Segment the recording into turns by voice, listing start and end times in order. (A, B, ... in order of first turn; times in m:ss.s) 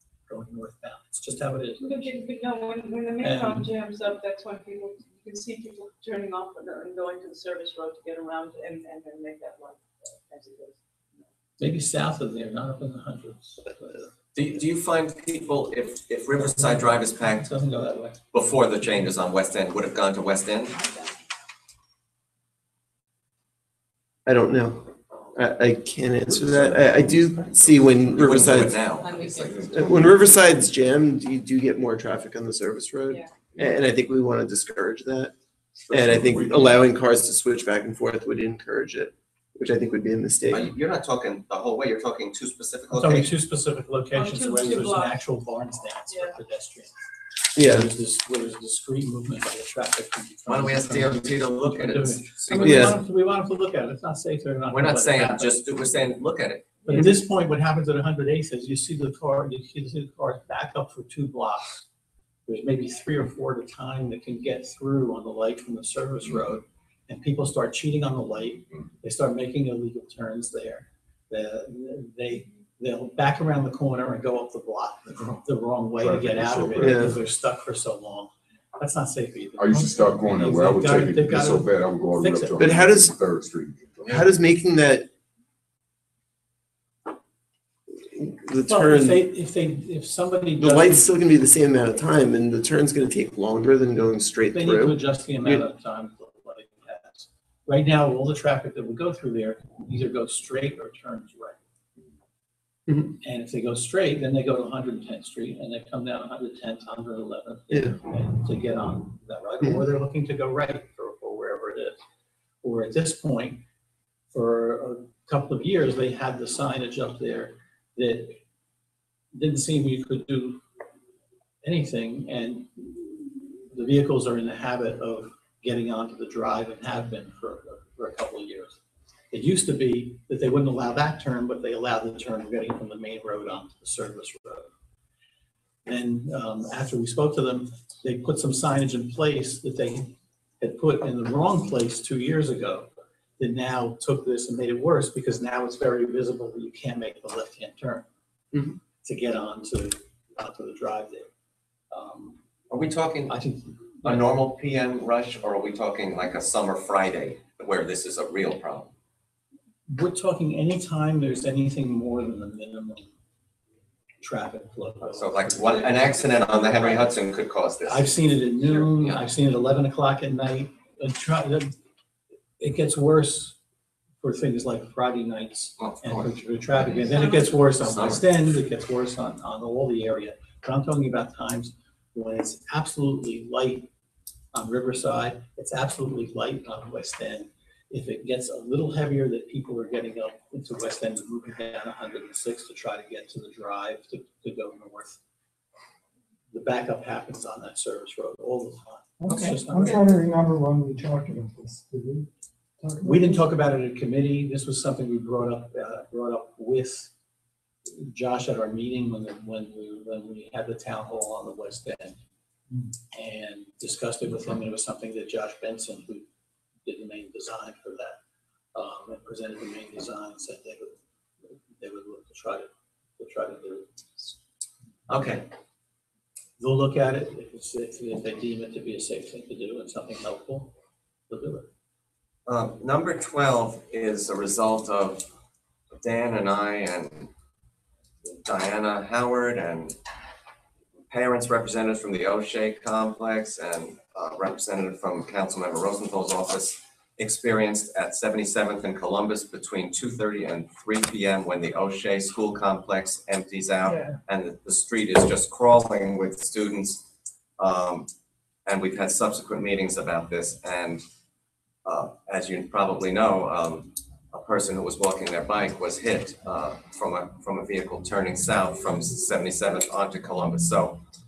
0:00.3-0:02.1 A
0:01.8-0:10.8 B
0:03.2-0:03.7 A
0:11.6-0:14.0 A
0:14.4-0:17.5 C
0:16.4-0:18.2 A
0:18.3-0:20.7 C
0:20.8-0:21.1 B
0:24.3-0:28.8 D
0:26.3-0:28.6 E
0:28.1-0:29.5 C
0:29.0-0:29.7 B
0:29.3-0:30.4 E
0:29.7-0:35.3 D
0:35.8-0:36.8 E
0:35.9-0:40.7 D
0:40.5-0:43.3 C
0:42.9-0:46.9 A
0:44.1-0:45.2 B
0:46.1-0:46.4 B
0:47.6-0:47.9 D
0:47.6-0:55.6 A
0:50.5-0:52.9 C
0:52.6-0:53.0 D
0:54.7-0:57.0 C
0:56.8-1:01.8 A
1:02.5-1:23.0 A
1:16.0-1:17.2 E
1:16.8-1:17.2 D
1:19.6-1:24.2 E
1:22.6-1:23.2 D
1:24.0-1:25.1 D
1:28.1-1:29.2 D
1:28.7-1:31.1 A
1:30.6-1:35.6 D
1:34.5-1:41.6 A
1:42.9-1:43.1 D
1:43.2-1:52.0 A
1:47.7-1:48.0 D
1:52.6-1:53.6 A
1:54.3-1:58.4 A
1:59.3-2:00.6 A
2:01.6-2:08.8 A
2:09.3-2:14.7 A
2:15.8-2:28.1 A
2:28.5-2:28.8 D
2:28.9-2:31.3 A
2:31.9-2:32.4 A
2:32.7-2:33.4 C
2:33.3-2:34.4 A
2:34.0-2:38.9 C
2:39.9-2:43.1 A
2:44.2-2:46.2 A
2:45.1-2:48.2 C
2:45.7-2:47.1 B
2:47.9-2:51.7 A
2:52.6-2:53.6 A
2:54.2-3:03.9 A
2:55.8-2:56.3 C
2:56.8-2:57.7 B
2:57.8-2:58.2 C
3:04.5-3:15.2 A
3:16.5-3:20.0 A
3:19.2-3:22.3 F
3:22.8-3:23.5 F
3:23.0-3:27.1 A
3:27.9-3:32.2 A
3:33.1-3:36.3 A
3:36.8-3:38.2 A
3:38.7-3:41.0 A
3:41.7-3:44.3 A
3:45.1-3:45.4 C
3:46.6-3:50.7 A
3:51.3-3:51.7 A
3:52.5-3:55.2 C
3:55.9-3:57.3 C
3:58.2-4:00.0 C
4:01.1-4:17.0 C
4:17.6-4:18.1 C
4:18.7-4:21.0 C
4:21.8-4:31.0 C